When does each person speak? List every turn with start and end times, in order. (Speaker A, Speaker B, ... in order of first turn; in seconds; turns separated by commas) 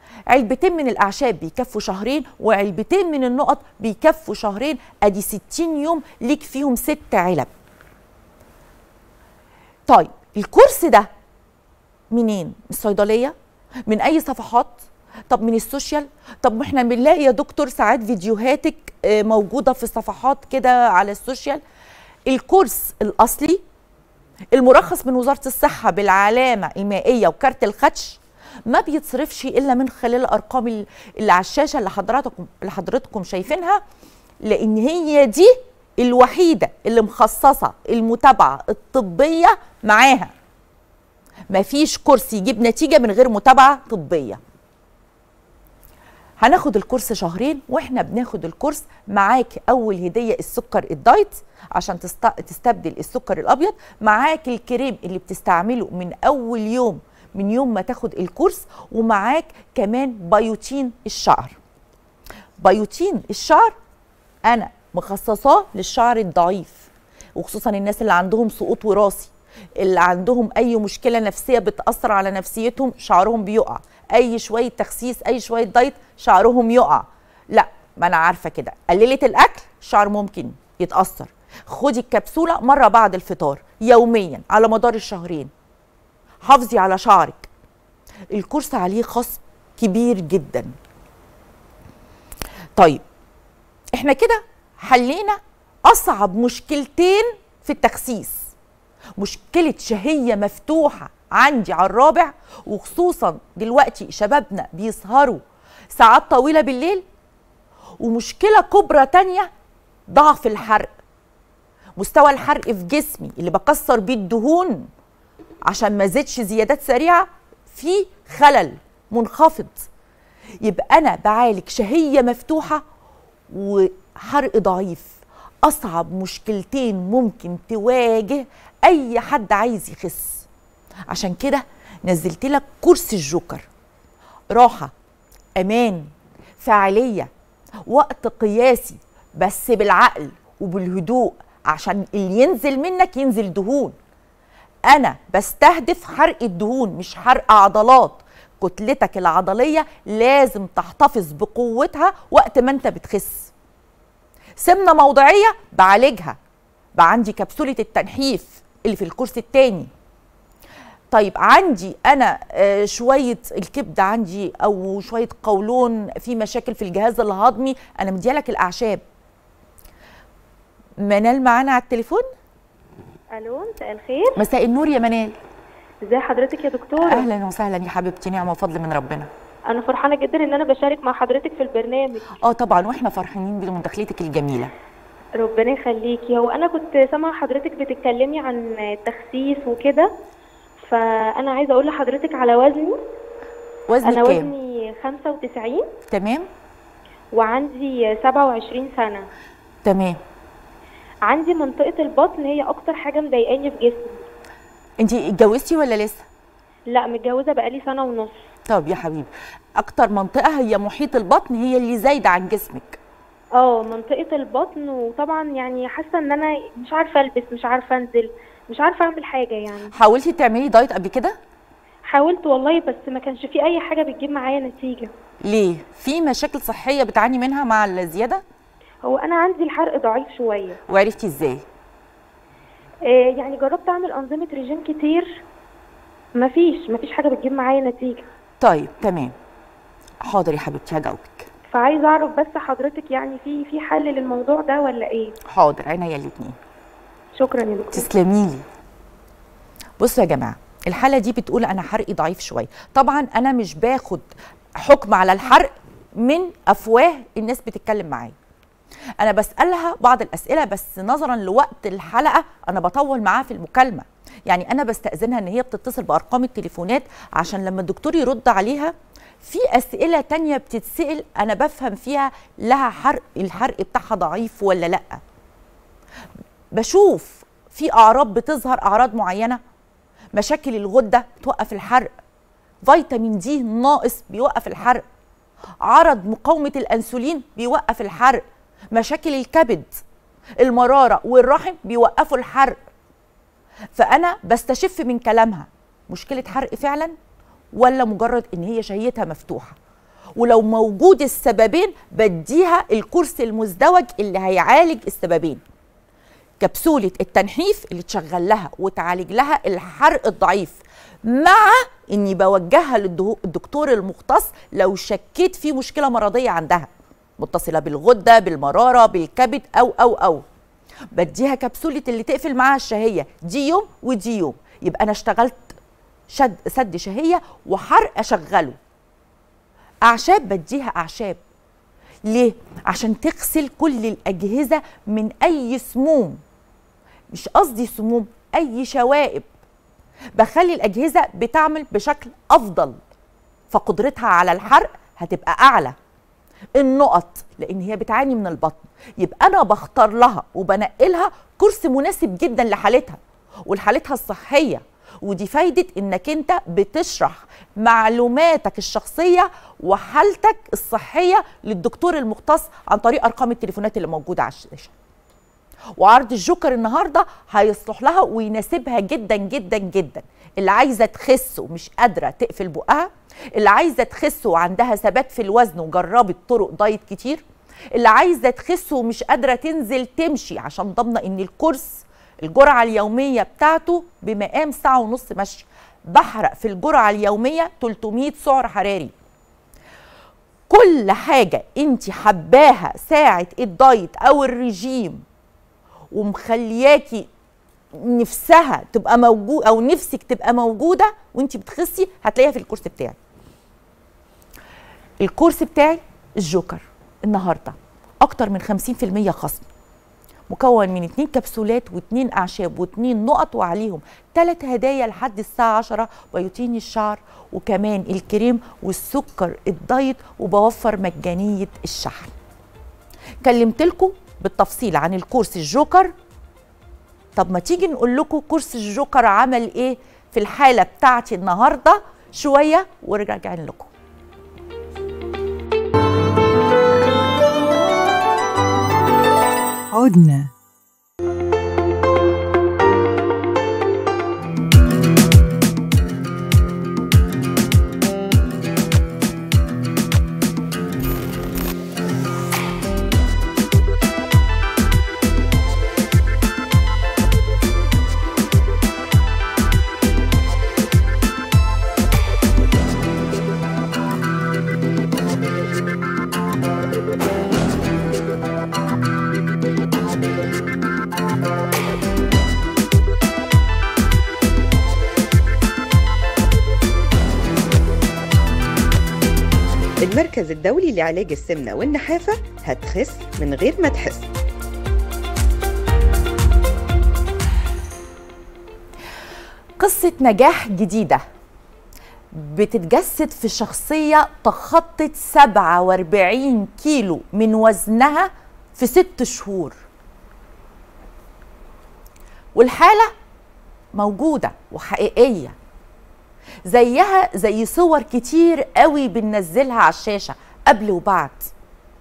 Speaker A: 0.3-7.5, Speaker A: 9.9-11.1, Speaker A: 12.1-13.3, Speaker A: 13.9-21.6, Speaker A: 22.3-23.6, Speaker A: 24.5-33.8, Speaker A: 34.4-40.3, Speaker A: 41.5-44.4, Speaker A: 46.4-61.6, Speaker A: 62.6-63.7, Speaker A: 64.5-85.5, Speaker A: 86.4-87.5, Speaker A: 88.3-90.7, Speaker A: 92.8-93.0, Speaker A: 93.9-98.4, Speaker A: 99.2-105.4, Speaker A: 105.9-107.0, Speaker A: 108.0-109.5, Speaker A: 110.1-110.9, Speaker A: 112.0-114.9, Speaker A: 115.7-119.9, Speaker A: 120.6-122.8, Speaker A: 123.5-130.4, Speaker A: 131.1-133.7, Speaker A: 134.5-134.9, Speaker A: 135.6-136.1, Speaker A: 136.6-137.3, Speaker A: 137.9-143.9, Speaker A: 144.9-153.5, Speaker A: 154.6-156.4, Speaker A: 156.9-159.9, Speaker A: 161.1-169.0, Speaker A: 171.0-172.2, Speaker B: 173.3-174.4, Speaker A: 174.3-175.3, Speaker B: 176.0-177.2, Speaker A: 177.0-179.3, Speaker B: 179.7-182.4, Speaker A: 182.4-184.7, Speaker B: 185.4-190.1, Speaker B: 190.8-193.0, Speaker A: 193.9-194.5, Speaker B: 194.0-195.9, Speaker A: 196.1-196.5, Speaker B: 197.3-199.3, Speaker A: 199.8-200.2, Speaker B: 201.2-204.2, Speaker A: 205.0-206.3, Speaker B: 206.9-208.4, Speaker A: 208.7-213.0, Speaker B: 213.6-219.9, Speaker A: 219.9-221.4, Speaker B: 222.1-225.1, Speaker A: 225.4-228.4, Speaker B: 229.0-230.8, Speaker A: 230.9-231.6, Speaker B: 233.0-235.4, Speaker B: 236.4-238.2, Speaker A: 238.6-239.3, Speaker A: 240.2-241.5, Speaker B: 241.7-245.3, Speaker A: 245.5-246.6, Speaker B: 247.3-248.1, Speaker A: 247.9-248.6, Speaker A: 250.0-258.3, Speaker A: 259.2-275.2, Speaker A: 276.7-279.6, Speaker A: 280.3-282.1, Speaker A: 282.8-285.0, Speaker A: 285.8-290.0, Speaker A: 290.6-292.8, Speaker A: 293.9-297.1, Speaker A: 297.7-299.8, Speaker A: 300.4-305.6, Speaker A: 306.6-320.4, Speaker A: 321.1-325.8, Speaker A: 326.3-328.8, Speaker A: 330.0-331.4, Speaker A: 332.2-336.4, Speaker A: 337.3-339.4, Speaker A: 340.4-343.0, Speaker A: 343.7-345.9, Speaker A: 346.8-364.9, Speaker A: 366.0-377.4, Speaker A: 377.9-389.1, Speaker A: 390.7-395.2, Speaker A: 396.1-397.3, Speaker A: 397.9-403.1, Speaker A: 405.2-409.6, Speaker A: 410.5-422.3, Speaker A: 423.4-426.1, Speaker A: 427.4-433.9, Speaker C: 439.9-440.5, Speaker C: 480.0-484.3, Speaker A: 489.8-491.2, Speaker A: 492.3-499.8, Speaker A: 502.6-503.1, Speaker A: 503.9-505.5, Speaker A: 506.7-511.5